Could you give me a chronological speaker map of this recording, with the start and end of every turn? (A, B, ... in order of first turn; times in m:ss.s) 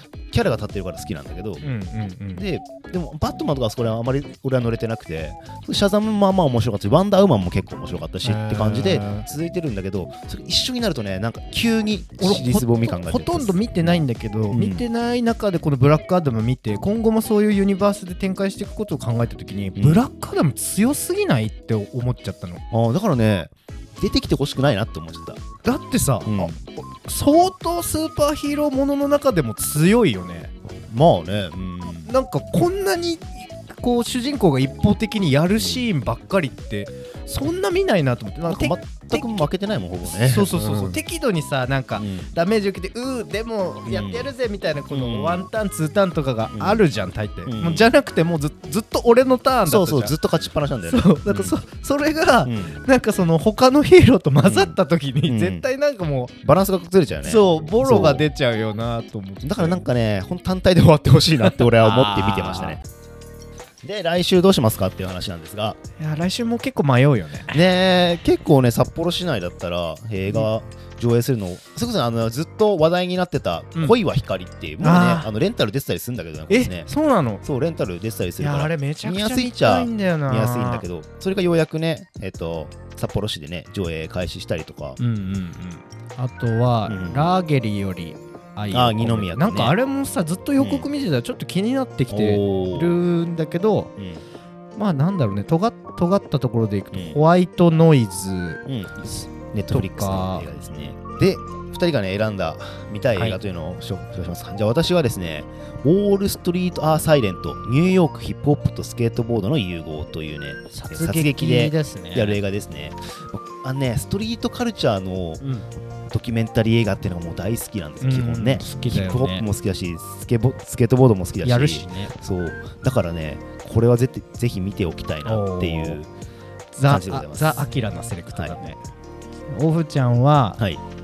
0:00.3-0:01.6 A
0:01.6-0:02.4 B
0:02.3-0:14.8 A
0:08.2-0:09.3 B
0:12.2-0:22.6 B
0:19.7-0:20.0 A
0:22.7-0:25.4 A
0:25.6-0:30.5 B
0:26.2-0:26.6 A
0:30.9-0:32.1 A
0:32.0-0:39.5 B
0:35.6-0:35.9 A
0:38.5-0:41.0 A
0:40.0-0:50.1 B
0:42.0-0:42.3 A
0:43.8-0:44.3 A
0:44.9-0:45.5 A
0:46.5-0:46.8 A
0:47.4-0:47.9 A
0:49.6-0:51.6 A
0:50.8-0:56.3 B
0:52.4-0:52.8 A
0:54.4-0:55.7 A
0:56.4-0:58.3 A
0:57.2-0:59.8 B
0:59.4-1:02.8 A
1:01.4-1:02.8 B
1:03.8-1:05.8 A
1:06.0-1:07.6 B
1:07.5-1:16.9 A
1:14.8-1:15.3 B
1:16.5-1:17.4 B
1:17.4-1:25.0 A
1:18.4-1:20.8 B
1:25.0-1:33.9 B
1:26.9-1:27.3 A
1:28.7-1:29.8 A
1:30.6-1:30.9 A
1:32.1-1:33.0 A
1:34.0-1:34.2 A
1:34.7-1:39.2 B
1:36.9-1:37.2 A
1:38.6-1:55.4 A
1:39.7-1:40.5 B
1:50.7-1:52.4 B
1:55.4-1:55.7 B
1:56.1-2:06.1 A
1:58.0-1:59.4 B
2:01.4-2:02.1 B
2:05.2-2:06.0 B
2:06.7-2:08.8 B
2:06.8-2:07.7 A
2:08.3-2:08.6 A
2:09.5-2:10.6 B